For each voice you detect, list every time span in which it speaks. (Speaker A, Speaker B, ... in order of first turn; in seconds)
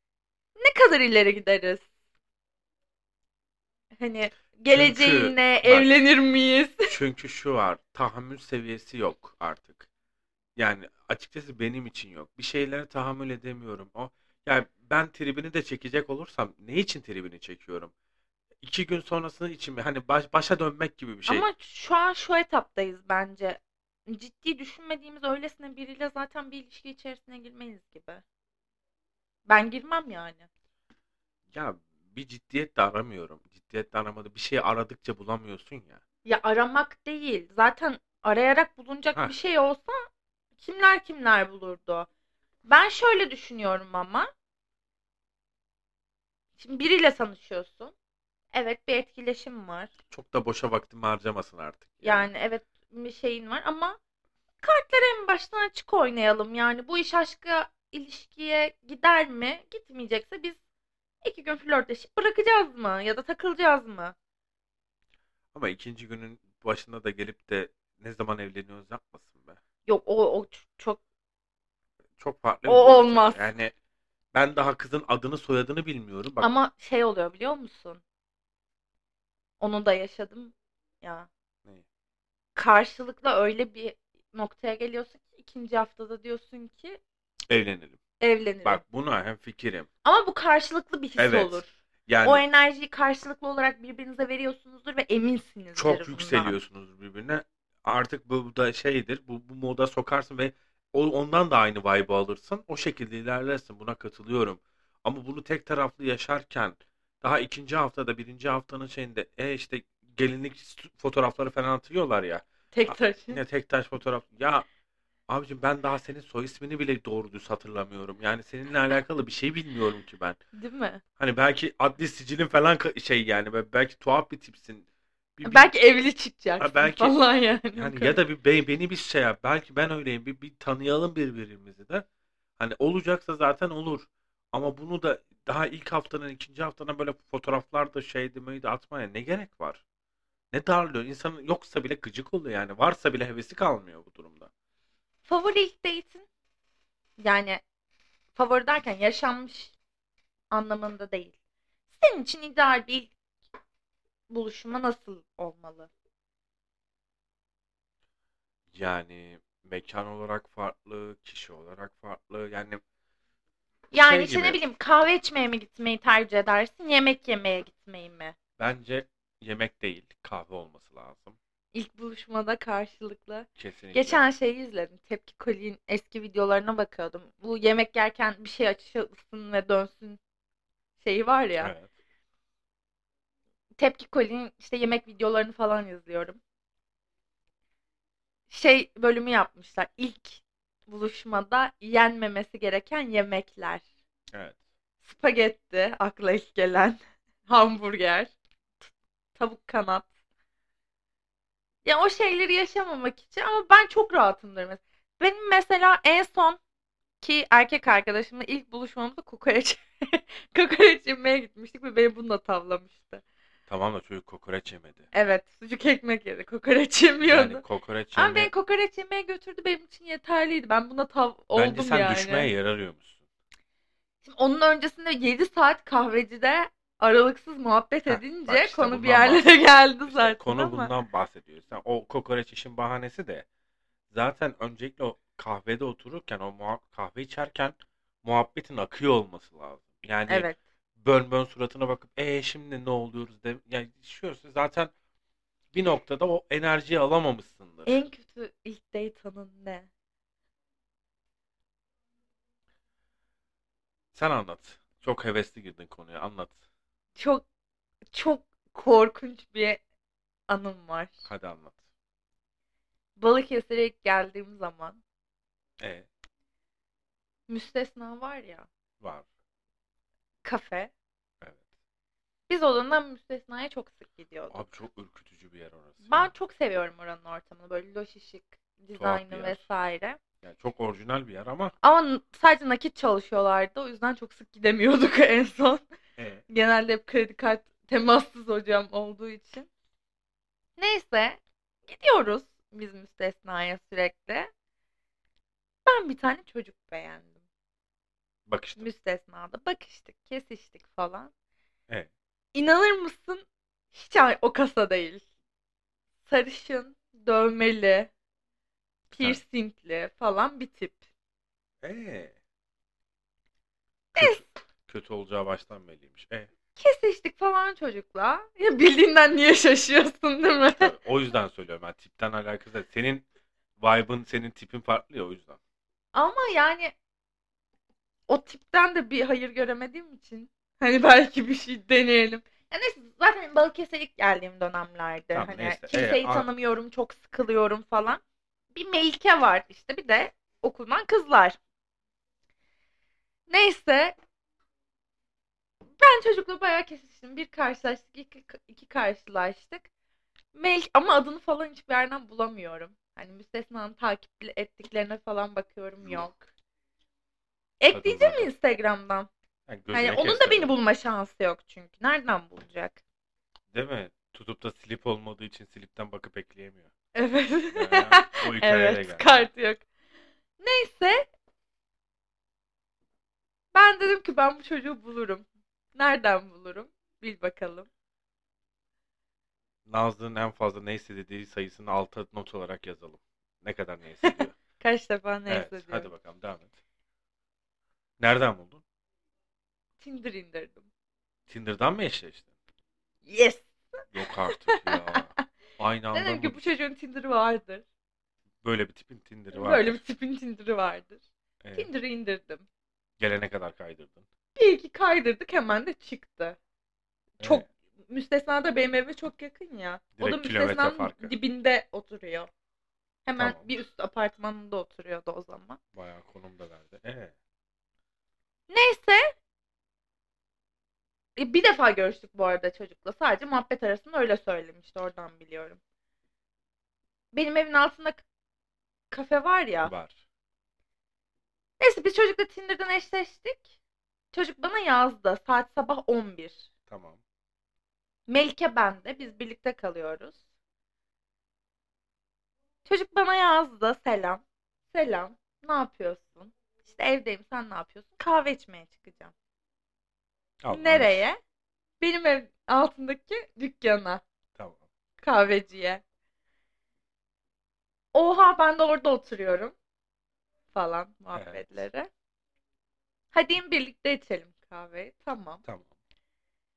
Speaker A: 0.6-1.9, 4.0-6.9, 21.3-28.2, 29.5-30.5, 36.2-40.0, 40.6-42.1, 42.7-44.3, 46.6-47.9, 48.5-49.9, 52.0-54.0, 54.6-60.6, 61.2-64.2, 69.9-71.0, 72.7-73.5, 76.4-78.0, 79.6-81.3, 82.5-87.0, 88.2-88.8, 90.0-91.7, 92.2-96.6, 112.7-113.4, 120.5-121.0, 125.5-128.2, 145.3-146.3, 147.2-147.6, 148.3-149.7, 150.5-151.3, 151.9-153.1, 154.3-155.9, 163.9-168.3, 171.7-180.2, 181.0-181.7, 183.8-186.4, 188.5-193.8, 195.0-198.3, 199.4-200.1, 201.8-206.6, 207.2-213.2, 215.1-217.6, 218.2-222.5, 224.2-230.9, 240.3-240.6, 247.9-249.9, 257.2-257.4, 258.1-259.8, 260.5-261.3, 263.2-265.0, 267.5-268.7, 270.4-270.9, 272.5-274.6, 276.1-280.2, 281.8-285.8, 286.5-289.7, 290.8-294.5, 295.9-297.4, 298.8-301.3, 302.5-305.2, 306.3-308.1, 309.1-311.0, 314.1-314.5, 316.8-320.9, 326.1-326.9, 328.3-338.2, 338.7-341.6, 343.5-344.2, 346.0-349.9, 350.5-356.4, 357.8-359.3, 359.9-363.0, 367.1-369.9, 370.6-371.3, 373.7-377.9, 384.2-386.1, 390.0-390.9, 393.3-395.4, 396.1-397.8, 399.5-401.2, 401.7-402.7, 404.6-406.6, 407.4-412.5, 413.2-415.8, 418.7-419.3, 421.4-425.8, 427.3-428.2, 429.1-429.9, 431.8-433.7, 434.3-436.7, 438.3-440.4, 442.9-449.3, 450.7-451.4, 452.0-454.2, 455.2-456.0, 458.1-459.7, 460.7-462.1, 463.3-465.6
Speaker B: 4.7-5.9, 6.9-9.9, 10.6-17.9, 18.6-21.5, 31.5-36.0, 50.1-52.3, 65.5-69.6, 72.2-73.7, 74.3-76.5, 87.5-88.0, 88.6-89.9, 91.2-92.4, 95.8-114.7, 115.3-120.4, 121.2-125.7, 126.6-127.2, 127.7-132.1, 132.6-139.8, 140.5-144.5, 158.7-162.8, 163.9-164.6, 168.6-171.4, 173.6-174.2, 181.6-181.9, 194.3-194.6, 213.7-215.1, 217.2-218.5, 221.5-223.2, 228.1-229.5, 230.1-233.4, 234.1-240.5, 241.0-244.9, 245.7-248.0, 254.1-256.6, 261.3-261.8, 265.8-266.1, 269.0-269.2, 274.5-276.3, 278.9-279.6, 280.4-281.7, 286.2-286.4, 298.5-298.9, 311.8-312.3, 314.2-316.5, 320.7-323.2, 323.8-325.6, 335.3-336.5, 356.0-356.3, 357.9-358.5, 359.7-360.7, 363.7-366.9, 367.7-369.5, 379.9-384.6, 385.5-386.7, 388.2-388.8, 391.5-392.5, 394.1-396.7, 398.6-400.0, 401.6-401.9, 403.2-404.2, 410.2-411.3, 413.4-413.7, 415.9-417.3, 429.8-430.2, 436.9-437.2, 450.6-451.2, 454.6-454.8, 461.3-461.7